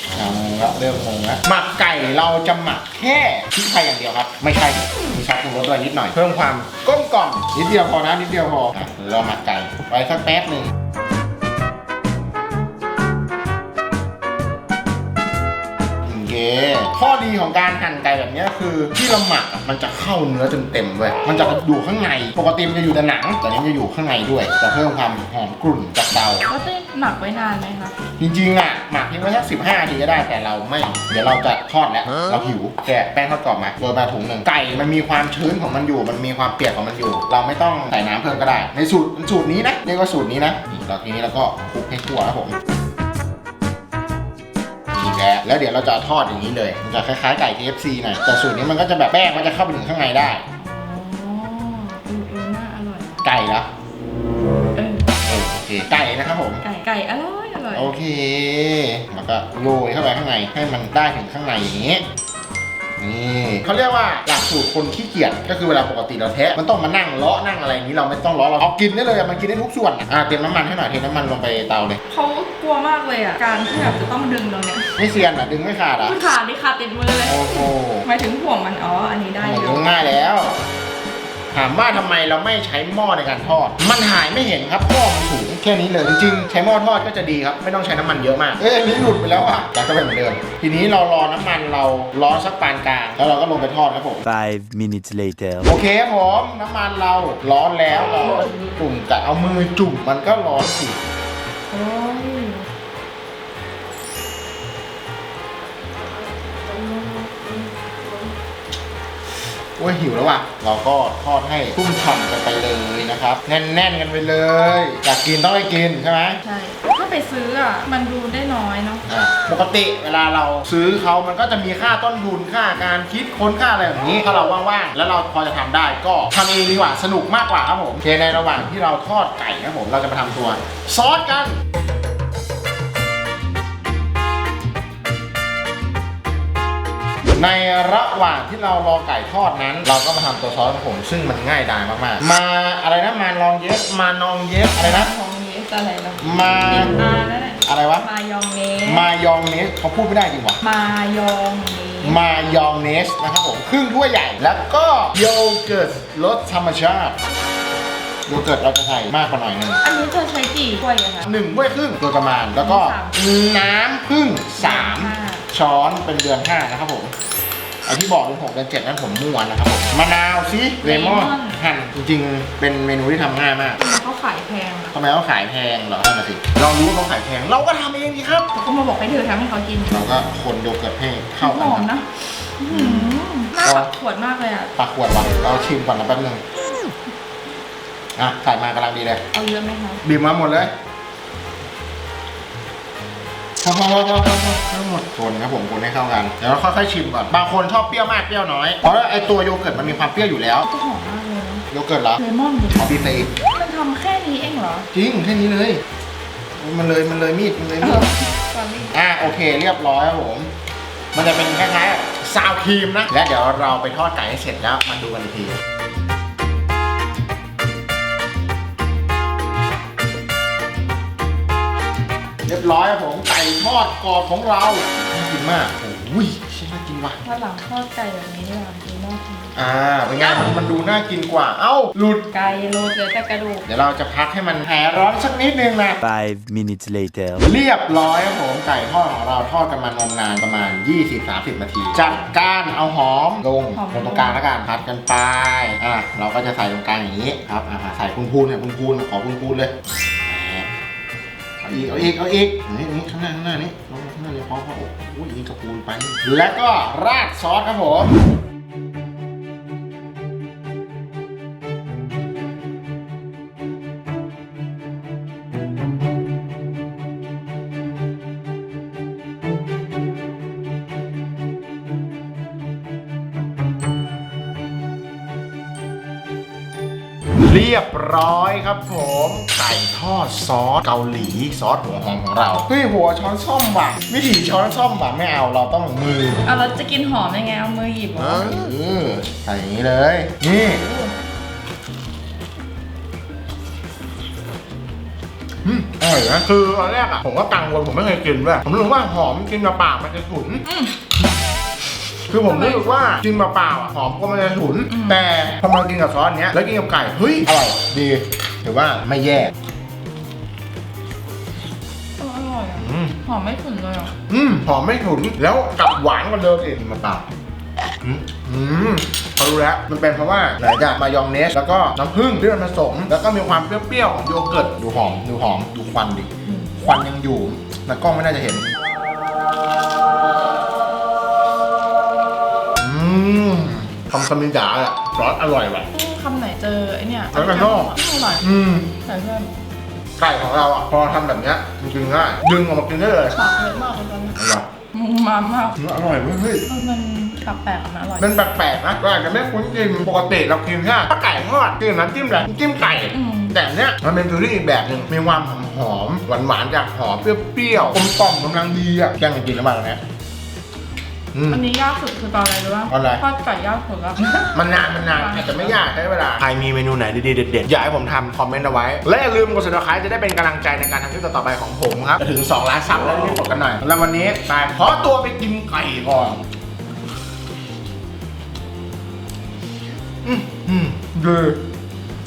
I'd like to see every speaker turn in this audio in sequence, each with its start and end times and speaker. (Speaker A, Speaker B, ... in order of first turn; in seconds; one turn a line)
Speaker A: 0.1-10.7
Speaker A: 16.1-26.5
Speaker B: 26.5-27.9
Speaker A: 28.2-42.5
Speaker A: 44.9-50.4
Speaker B: 50.6-53.2
Speaker A: 53.2-53.7
Speaker B: 54.8-55.1
Speaker A: 55.2-56.6
Speaker B: 56.6-57.9
Speaker A: 57.7-62.0
Speaker A: 63.0-72.0
Speaker B: 72.1-74.9
Speaker A: 75.0-76.2
Speaker B: 76.0-80.2
Speaker A: 77.2-78.1
Speaker A: 79.4-80.6
Speaker A: 81.5-94.2
Speaker C: 94.2-95.7
Speaker A: 95.7-101.0
Speaker B: 101.7-102.7
Speaker B: 106.6-107.7
Speaker A: 109.8-116.4
Speaker B: 116.4-119.0
Speaker A: 119.1-131.6
Speaker A: 137.3-145.1
Speaker B: 144.7-149.1
Speaker A: 146.2-146.9
Speaker A: 147.6-148.1
Speaker A: 148.8-150.6
Speaker B: 150.6-152.2
Speaker A: 152.0-157.2
Speaker A: 158.2-159.8
Speaker B: 159.8-161.3
Speaker A: 161.2-167.1
Speaker B: 162.6-163.2
Speaker B: 164.6-165.4
Speaker A: 167.8-173.8
Speaker B: 170.8-171.6
Speaker B: 173.8-174.9
Speaker A: 174.9-178.5
Speaker B: 178.5-179.9
Speaker A: 179.9-181.9
Speaker B: 181.4-184.7
Speaker A: 182.7-183.9
Speaker A: 184.8-186.4
Speaker A: 188.2-189.2
Speaker B: 189.3-190.0
Speaker A: 190.0-190.7
Speaker A: 193.6-200.7
Speaker B: 200.7-201.6
Speaker A: 201.7-202.2
Speaker B: 202.2-204.9
Speaker A: 202.7-203.3
Speaker A: 204.9-205.8
Speaker A: 206.6-208.1
Speaker B: 207.8-208.9
Speaker A: 208.9-210.5
Speaker A: 211.1-215.6
Speaker A: 222.4-227.2
Speaker B: 227.2-229.5
Speaker A: 229.6-232.3
Speaker B: 230.2-230.6
Speaker B: 232.3-233.7
Speaker A: 233.7-236.0
Speaker C: 236.0-237.4
Speaker A: 237.4-249.7
Speaker B: 243.7-244.4
Speaker A: 250.2-250.7
Speaker A: 251.6-258.1
Speaker A: 277.4-286.4
Speaker B: 286.4-288.5
Speaker A: 288.3-290.8
Speaker B: 290.5-291.1
Speaker A: 295.6-300.6
Speaker B: 300.6-300.9
Speaker A: 302.3-309.5
Speaker B: 302.4-302.9
Speaker B: 304.9-305.3
Speaker B: 312.2-314.1
Speaker A: 312.8-313.2
Speaker A: 314.3-317.2
Speaker A: 318.0-328.7
Speaker B: 326.4-326.8
Speaker A: 332.8-335.9
Speaker B: 335.9-338.4
Speaker A: 337.3-338.9
Speaker B: 339.0-339.6
Speaker A: 340.2-343.4
Speaker B: 343.3-344.4
Speaker A: 344.4-344.7
Speaker B: 344.9-345.8
Speaker A: 345.8-346.6
Speaker B: 346.6-348.4
Speaker A: 348.2-360.0
Speaker B: 353.1-353.5
Speaker A: 361.3-361.6
Speaker B: 361.5-365.9
Speaker A: 362.9-363.2
Speaker A: 364.5-376.4
Speaker A: 380.2-381.6